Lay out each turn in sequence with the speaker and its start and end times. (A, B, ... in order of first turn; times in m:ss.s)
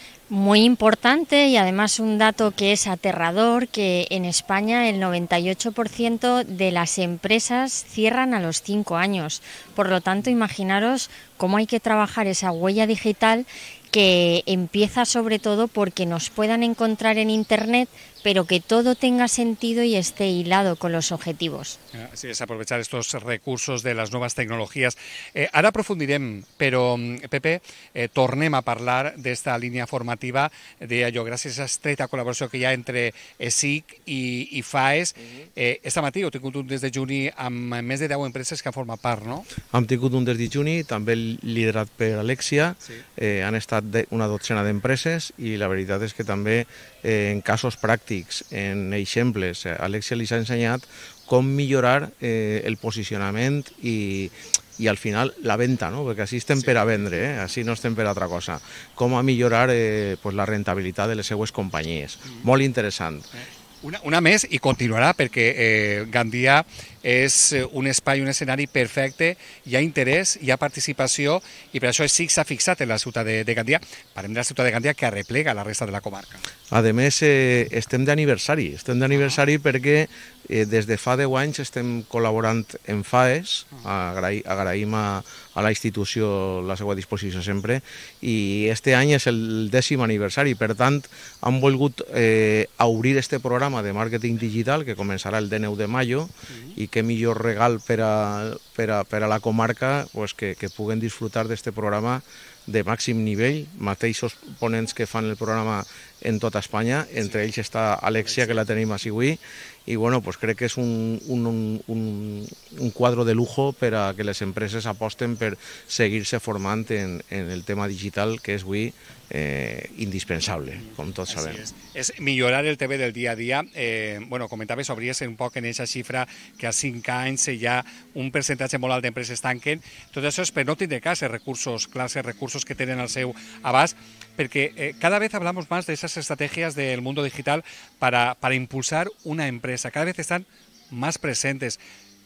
0:00.3-0:21.8 A
0:21.9-0:39.5 B
0:39.7-1:03.3 C
1:03.8-1:16.4 B
1:16.7-2:01.6 C
1:19.1-1:19.4 B
2:01.3-2:21.8 B